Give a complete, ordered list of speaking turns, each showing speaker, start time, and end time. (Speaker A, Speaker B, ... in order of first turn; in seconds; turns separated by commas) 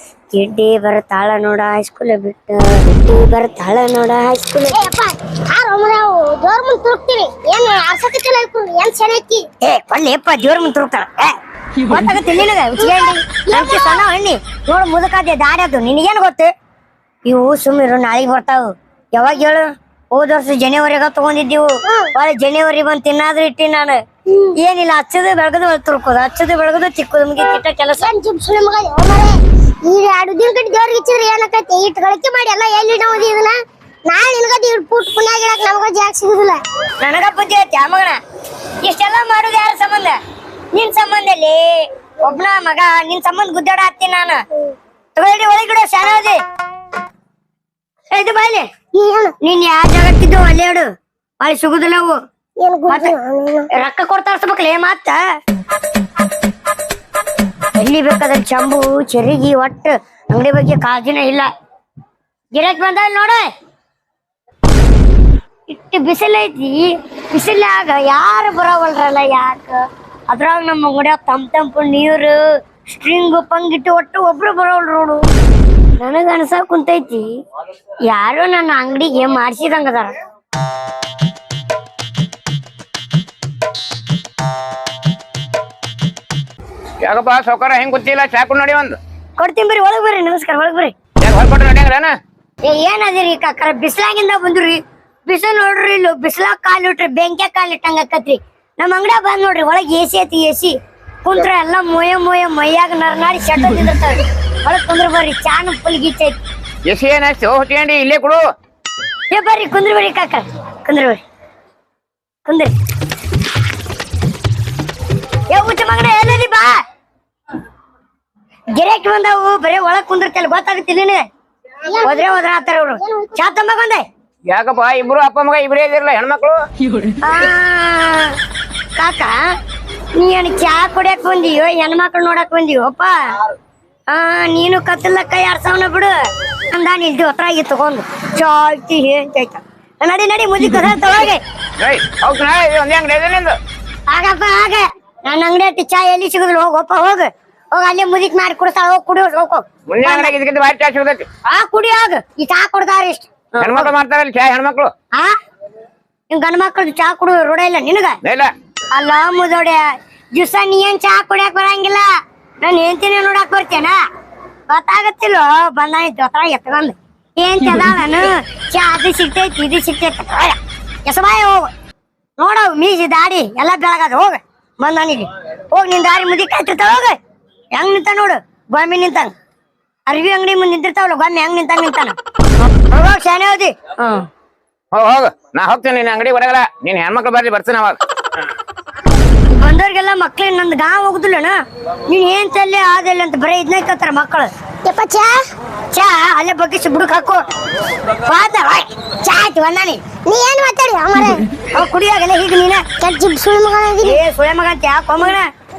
Speaker A: 0.3-4.8, Speaker B: 4.7-9.4, Speaker A: 9.6-11.4, Speaker A: 11.9-16.5, Speaker B: 12.8-14.1, Speaker A: 17.3-24.0, Speaker B: 21.9-22.1, Speaker A: 24.6-28.1, Speaker B: 28.0-33.5, Speaker B: 34.1-36.6, Speaker A: 37.0-38.2, Speaker A: 38.8-40.2, Speaker A: 40.7-44.4, Speaker A: 45.2-46.4, Speaker A: 48.1-48.7, Speaker B: 48.9-49.3, Speaker A: 49.4-50.9, Speaker A: 51.4-52.2, Speaker B: 52.6-53.6, Speaker A: 52.9-53.1, Speaker A: 53.7-55.2, Speaker A: 57.8-61.5, Speaker A: 62.5-63.5, Speaker A: 65.7-72.4, Speaker A: 73.0-75.2, Speaker A: 76.0-77.3, Speaker A: 78.1-80.1, Speaker C: 87.0-89.0, Speaker A: 89.4-90.9, Speaker C: 91.2-92.1, Speaker A: 92.6-106.4, Speaker C: 106.9-108.4, Speaker A: 109.3-111.2, Speaker A: 112.5-112.7, Speaker A: 115.5-116.8, Speaker A: 118.7-121.2, Speaker B: 121.9-122.3, Speaker A: 122.0-124.0, Speaker B: 123.0-123.3, Speaker C: 124.5-126.6, Speaker A: 127.2-128.3, Speaker A: 129.0-129.4, Speaker A: 130.2-133.2, Speaker A: 134.1-136.2, Speaker A: 136.7-141.4, Speaker C: 141.8-143.6, Speaker A: 144.1-150.3, Speaker C: 149.9-151.3, Speaker A: 151.5-153.9, Speaker C: 153.6-154.9, Speaker A: 156.3-158.2, Speaker C: 158.2-158.5, Speaker A: 158.9-162.1, Speaker A: 162.6-164.0, Speaker A: 164.7-171.7, Speaker A: 172.4-177.2, Speaker A: 177.7-179.3, Speaker A: 180.1-184.3, Speaker C: 184.9-188.0, Speaker A: 189.5-191.6, Speaker A: 192.1-194.5, Speaker B: 194.8-195.4, Speaker A: 195.9-197.4, Speaker A: 198.2-200.1, Speaker B: 200.2-201.4, Speaker A: 201.7-202.8, Speaker B: 203.0-204.2, Speaker A: 204.0-205.5